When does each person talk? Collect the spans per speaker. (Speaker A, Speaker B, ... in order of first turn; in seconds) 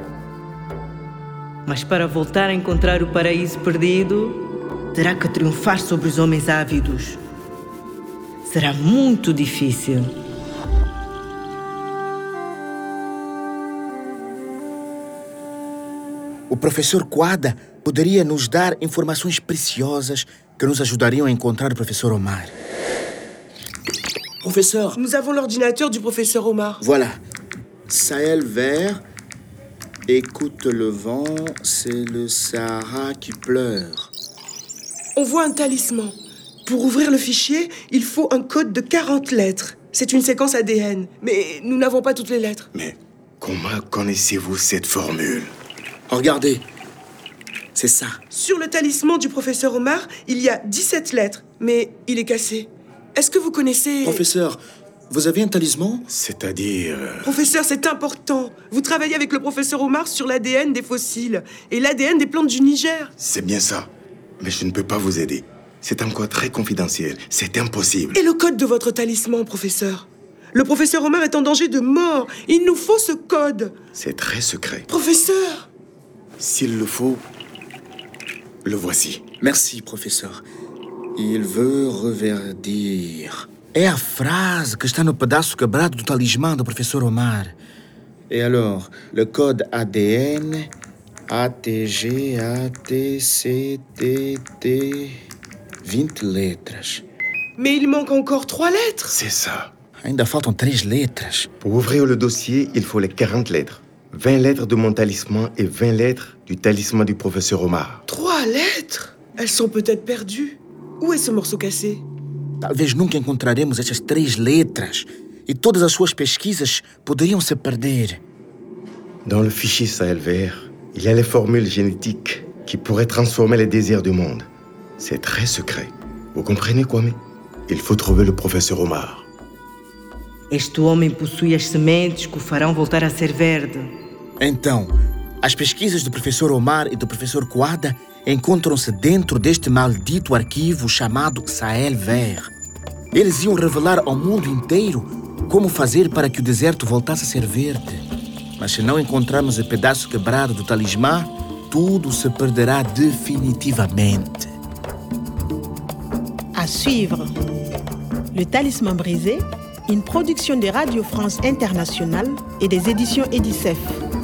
Speaker A: 1.6-7.2, 8.4-10.1, 130.5-133.9
Speaker B: 16.5-22.6, 24.4-25.0, 26.8-27.2, 27.9-29.0, 30.1-34.1, 46.1-46.6, 47.7-48.2, 54.0-56.1, 79.4-80.4, 81.2-87.5, 88.3-90.7, 91.3-95.2, 95.8-97.0, 100.0-101.5, 112.6-118.2, 134.4-142.5, 143.1-148.0, 148.6-154.5
Speaker C: 24.9-26.8, 35.1-36.1, 36.6-42.7, 48.3-54.2, 57.2-63.1, 68.1-73.7, 74.9-75.7, 97.6-99.1, 108.1-112.0
Speaker D: 42.7-45.5, 56.1-57.3, 63.2-63.9, 64.4-68.2, 73.9-74.8, 76.4-77.2, 78.6-79.2, 99.1-99.7, 101.6-108.0, 119.2-129.2
Speaker E: 156.5-157.3, 158.3-164.0